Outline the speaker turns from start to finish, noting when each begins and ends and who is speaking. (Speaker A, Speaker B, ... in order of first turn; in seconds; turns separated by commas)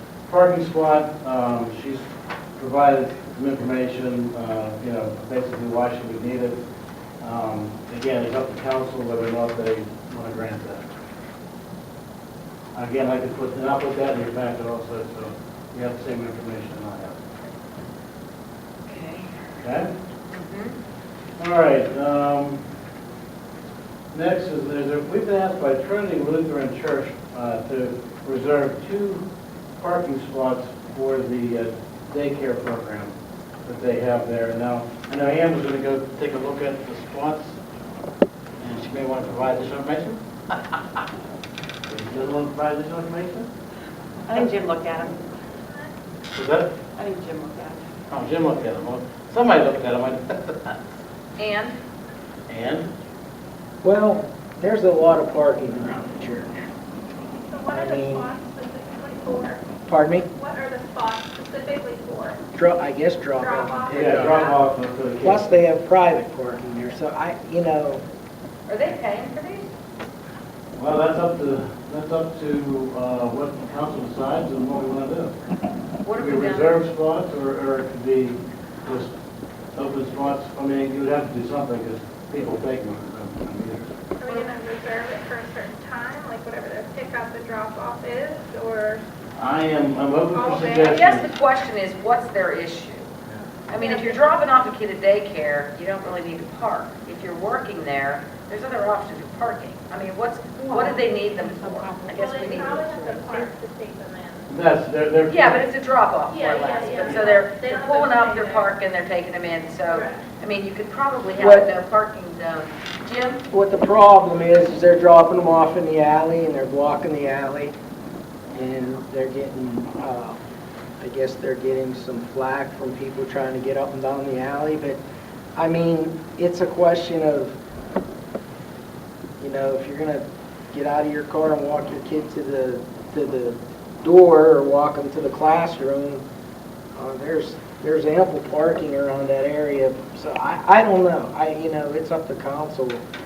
Speaker A: 0.3-2.0, Speaker A: 2.6-6.6, Speaker A: 7.2-10.9, Speaker A: 12.8-17.2, Speaker B: 18.9-19.3, Speaker A: 19.6-19.9, Speaker B: 20.3-20.8, Speaker A: 21.4-22.6, Speaker A: 24.1-29.2, Speaker A: 29.8-37.6, Speaker A: 38.6-41.0, Speaker A: 41.9-43.5, Speaker C: 44.3-45.2, Speaker A: 46.3-46.7, Speaker C: 47.0-47.8, Speaker A: 48.1-50.8, Speaker B: 51.4-51.8, Speaker A: 52.5-52.9, Speaker D: 53.8-56.5, Speaker E: 57.2-59.6, Speaker D: 57.7-58.3, Speaker D: 59.9-60.3, Speaker E: 60.4-62.4, Speaker D: 62.5-64.5, Speaker E: 63.4-64.6, Speaker A: 63.9-65.4, Speaker D: 65.2-68.0, Speaker B: 68.7-69.7, Speaker A: 70.8-75.4, Speaker B: 76.0-76.8, Speaker A: 76.2-79.1, Speaker A: 79.8-83.9, Speaker E: 84.2-89.0, Speaker A: 89.4-91.3, Speaker E: 90.4-90.7, Speaker B: 90.4-93.1, Speaker B: 93.7-102.9, Speaker E: 93.8-94.2, Speaker C: 100.7-103.5, Speaker E: 102.2-104.5, Speaker A: 104.5-105.6, Speaker B: 105.3-113.4, Speaker E: 106.3-108.7, Speaker E: 109.9-110.2, Speaker D: 111.4-111.7, Speaker D: 113.5-117.7, Speaker D: 118.5-120.4, Speaker D: 121.0-125.0, Speaker D: 125.5-127.5, Speaker D: 129.4-136.2, Speaker D: 136.9-143.0